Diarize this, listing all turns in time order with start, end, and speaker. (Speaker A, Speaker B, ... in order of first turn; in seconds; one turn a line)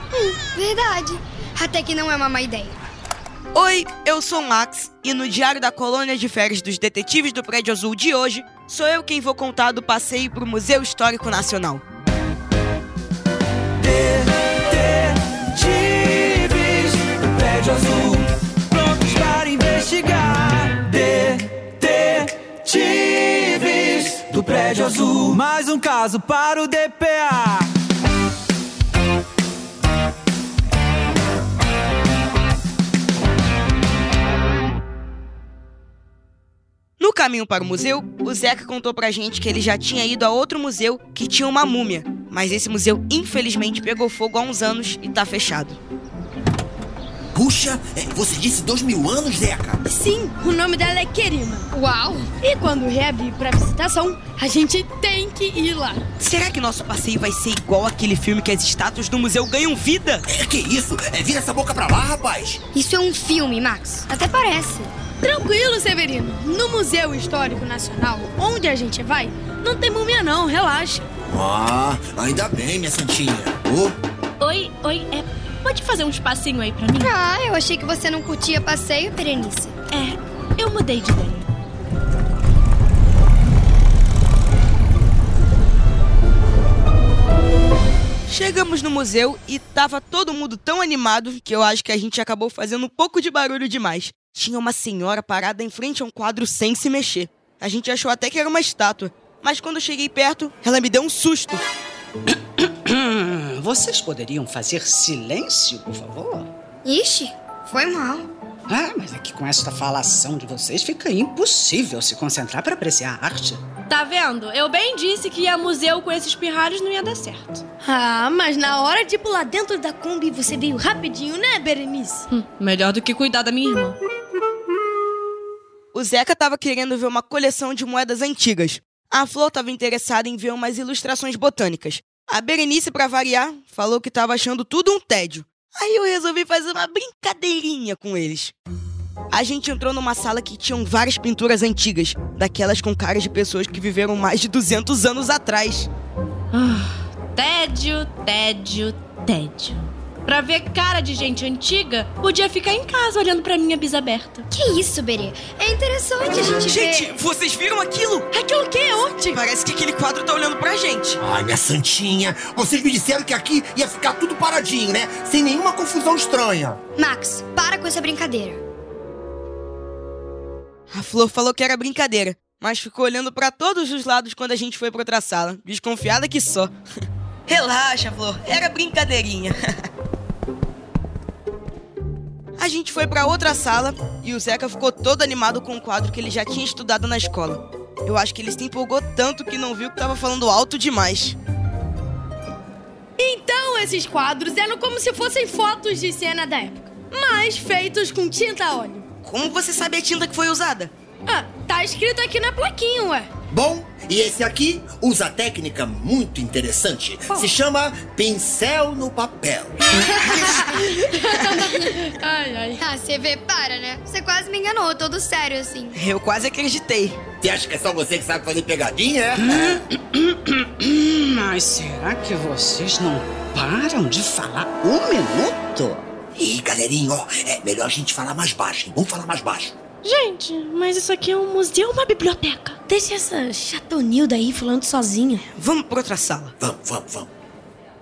Speaker A: 0.1-2.8
Speaker B: 3.5-11.8
Speaker C: 13.8-27.7
Speaker B: 37.0-45.8
Speaker D: 47.3-49.8
Speaker E: 49.8-51.6
Speaker A: 51.7-52.3
Speaker E: 52.4-56.0
Speaker B: 56.2-60.2
Speaker D: 60.3-62.6
Speaker A: 62.7-64.9
Speaker E: 65.2-71.0
Speaker D: 71.3-74.0
Speaker F: 74.4-77.1
Speaker A: 76.9-79.7
Speaker F: 79.9-81.5
Speaker B: 88.3-101.6
Speaker G: 102.3-106.5
Speaker A: 106.8-108.3
Speaker G: 108.7-113.6
Speaker F: 113.9-117.6
Speaker E: 117.8-122.2
Speaker F: 122.3-124.0
Speaker B: 125.9-138.5
Speaker B: 139.3-145.9
Speaker F: 146.5-154.4
Speaker A: 154.5-157.1
Speaker B: 156.7-158.3
Speaker E: 158.3-159.4
Speaker B: 159.3-161.2
Speaker D: 161.2-166.8
Speaker A: 166.9-168.6
Speaker B: 170.9-176.7
Speaker B: 177.5-179.6
Speaker B: 182.6-191.4
Speaker E: 193.2-199.1
Speaker B: 199.2-200.9
Speaker E: 201.3-203.3
Speaker D: 203.5-210.9
Speaker E: 211.1-212.8
Speaker A: 212.8-216.0
Speaker B: 215.9-217.2
Speaker D: 217.4-219.8
Speaker G: 219.4-226.0
Speaker D: 226.3-229.7
Speaker F: 230.0-232.8
Speaker E: 232.9-235.5
Speaker B: 235.6-236.5
Speaker D: 236.6-237.3